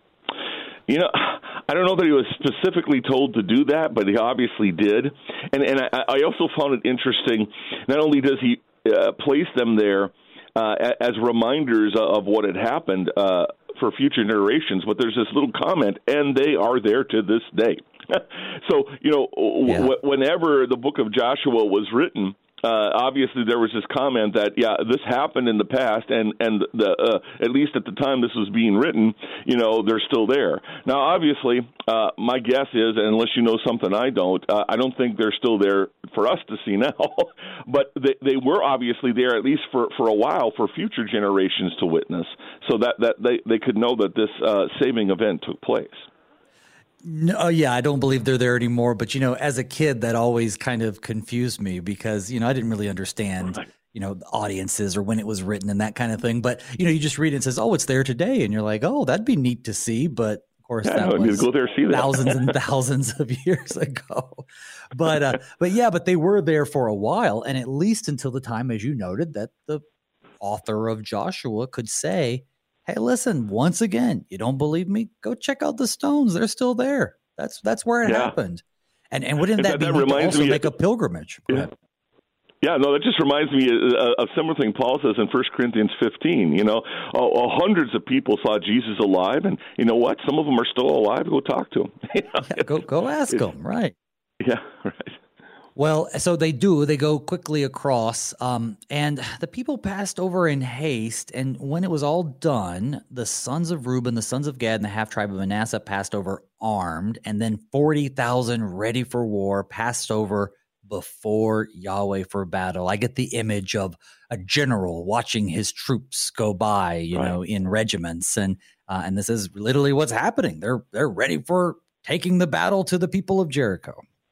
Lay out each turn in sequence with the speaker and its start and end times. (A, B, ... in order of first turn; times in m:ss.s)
0:00.9-0:46.1 A
0:19.6-0:19.9 B
0:47.0-1:09.8 B
1:00.8-1:02.5 A
1:10.4-1:21.7 B
1:18.0-1:18.3 A
1:19.6-1:20.7 A
1:22.6-1:32.7 A
1:32.4-1:33.9 B
1:34.4-1:35.2 A
1:35.8-2:04.0 B